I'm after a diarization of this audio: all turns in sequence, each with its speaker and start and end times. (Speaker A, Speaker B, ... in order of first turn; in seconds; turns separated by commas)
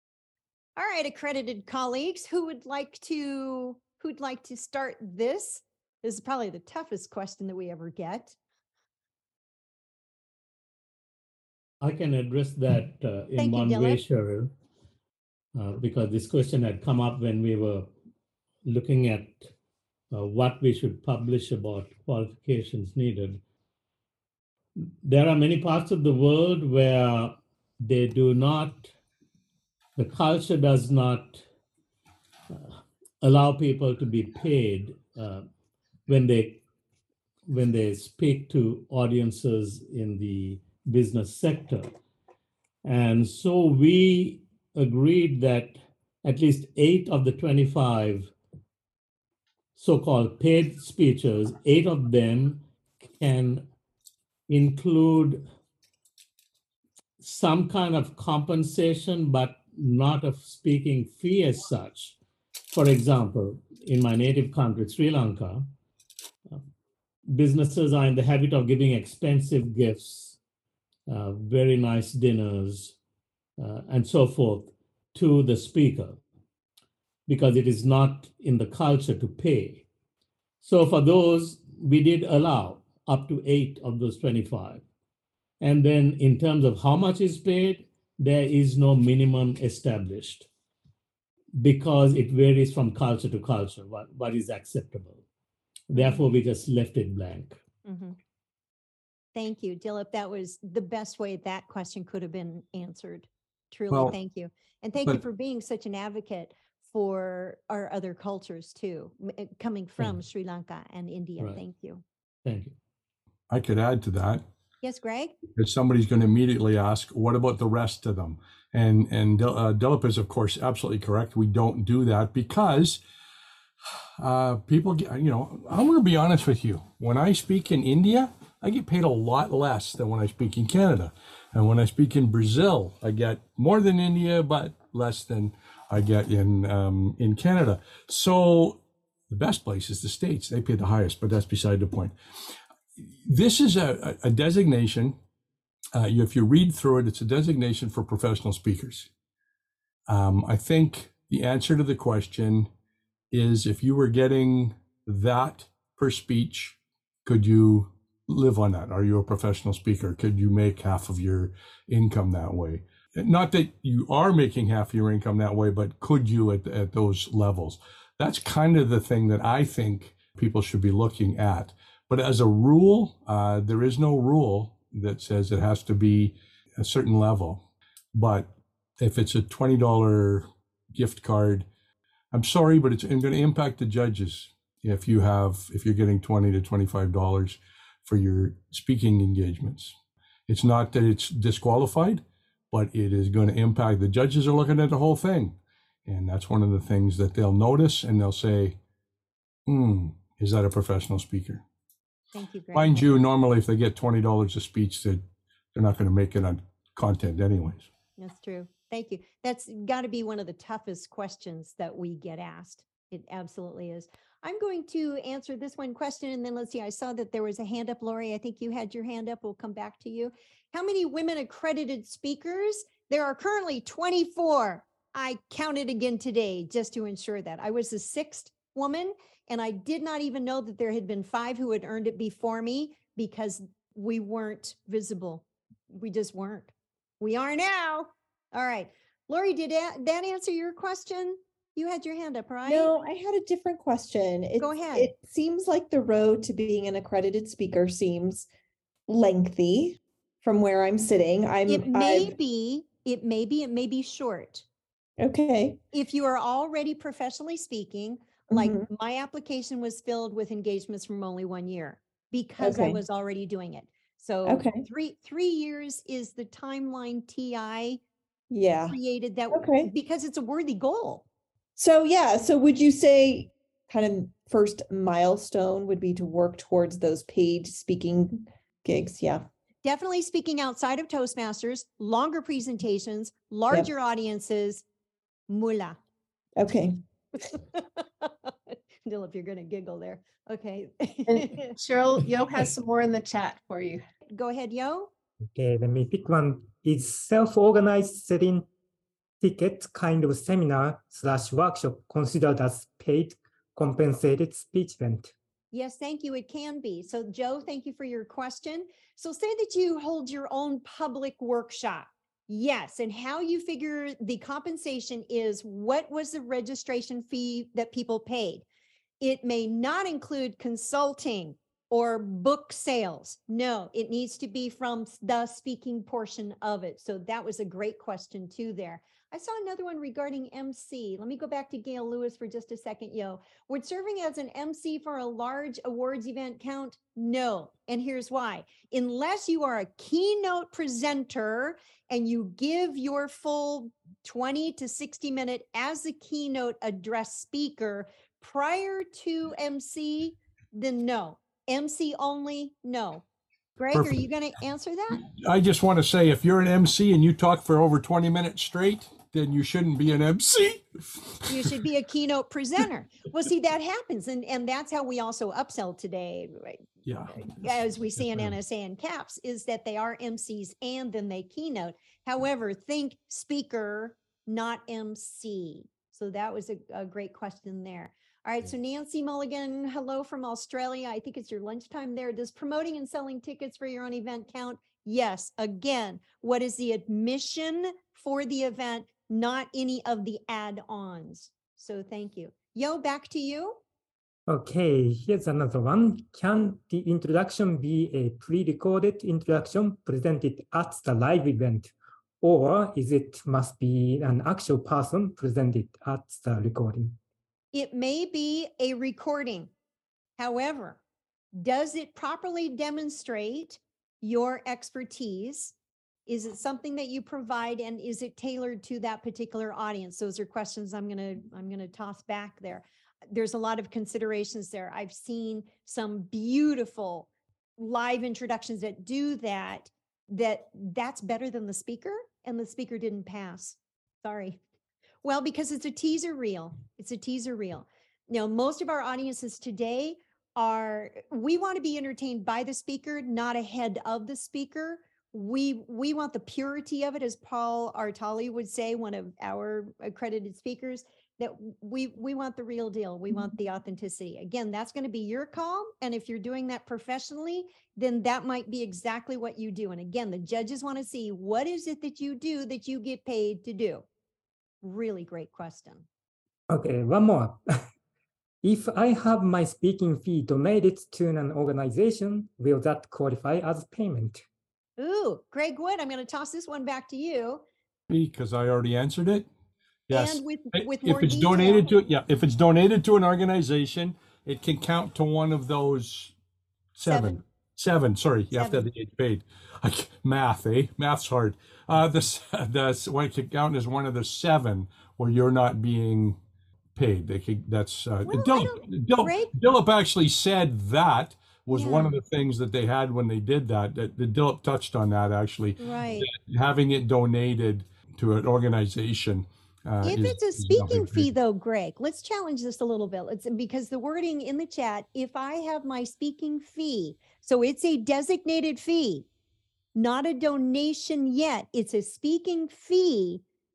Speaker A: 0.8-8.3, Speaker B: 11.8-14.5, Speaker A: 13.3-14.0, Speaker B: 15.6-17.9, Speaker B: 18.6-19.5, Speaker B: 20.1-23.4, Speaker B: 24.8-28.9, Speaker B: 29.9-31.4, Speaker B: 32.5-35.5, Speaker B: 36.1-36.6, Speaker B: 37.5-41.9, Speaker B: 42.8-48.3, Speaker B: 49.8-53.6, Speaker B: 54.5-55.5, Speaker B: 57.2-62.2, Speaker B: 62.7-65.7, Speaker B: 67.3-70.4, Speaker B: 71.1-73.0, Speaker B: 73.6-76.2, Speaker B: 77.3-79.9, Speaker B: 80.6-84.8, Speaker B: 85.6-90.5, Speaker B: 91.6-95.2, Speaker B: 95.9-97.6, Speaker A: 95.9-96.2, Speaker A: 97.8-98.2, Speaker A: 99.3-112.0, Speaker B: 112.4-112.8, Speaker C: 113.5-114.4, Speaker A: 114.8-115.3, Speaker C: 115.6-123.0, Speaker C: 124.2-142.1, Speaker C: 143.0-145.2, Speaker C: 145.9-149.1, Speaker C: 150.1-152.7, Speaker C: 153.3-177.6, Speaker C: 178.1-181.7, Speaker C: 182.3-189.9, Speaker C: 190.5-195.6, Speaker C: 196.1-198.8, Speaker C: 199.7-201.6, Speaker A: 202.3-203.2, Speaker C: 202.7-205.2, Speaker C: 205.7-207.9, Speaker A: 208.2-242.9, Speaker D: 242.7-248.5, Speaker A: 244.6-245.1, Speaker D: 249.1-252.3, Speaker A: 251.7-254.6, Speaker D: 255.2-255.8, Speaker A: 255.9-268.0, Speaker D: 258.5-258.9, Speaker D: 262.6-263.0, Speaker D: 264.4-264.9, Speaker D: 268.5-269.0, Speaker A: 268.9-271.2, Speaker D: 269.5-269.9, Speaker D: 271.8-279.4, Speaker A: 279.8-284.8, Speaker A: 285.5-286.0, Speaker D: 286.6-287.0, Speaker A: 287.7-291.5, Speaker E: 291.3-294.0, Speaker A: 294.3-295.1, Speaker F: 295.5-298.7, Speaker F: 299.4-305.3, Speaker A: 305.7-318.6, Speaker A: 319.2-353.2, Speaker A: 353.8-355.2, Speaker C: 353.9-354.2, Speaker C: 355.2-361.8, Speaker A: 361.5-366.8, Speaker C: 367.0-368.5, Speaker A: 367.3-393.8, Speaker F: 394.5-407.2, Speaker A: 407.7-409.7, Speaker A: 410.4-411.0, Speaker A: 411.6-415.7, Speaker A: 416.3-434.6, Speaker A: 435.2-464.0, Speaker A: 464.8-466.1, Speaker F: 466.7-467.6, Speaker F: 468.6-474.4, Speaker A: 475.0-477.6, Speaker C: 478.1-479.4, Speaker C: 480.1-486.3, Speaker A: 480.1-482.0, Speaker C: 486.9-496.4, Speaker A: 487.0-487.4, Speaker A: 488.5-488.9, Speaker C: 496.9-511.3, Speaker A: 498.2-499.5, Speaker A: 501.7-502.2, Speaker A: 505.8-506.3, Speaker A: 510.0-519.2, Speaker A: 519.9-523.4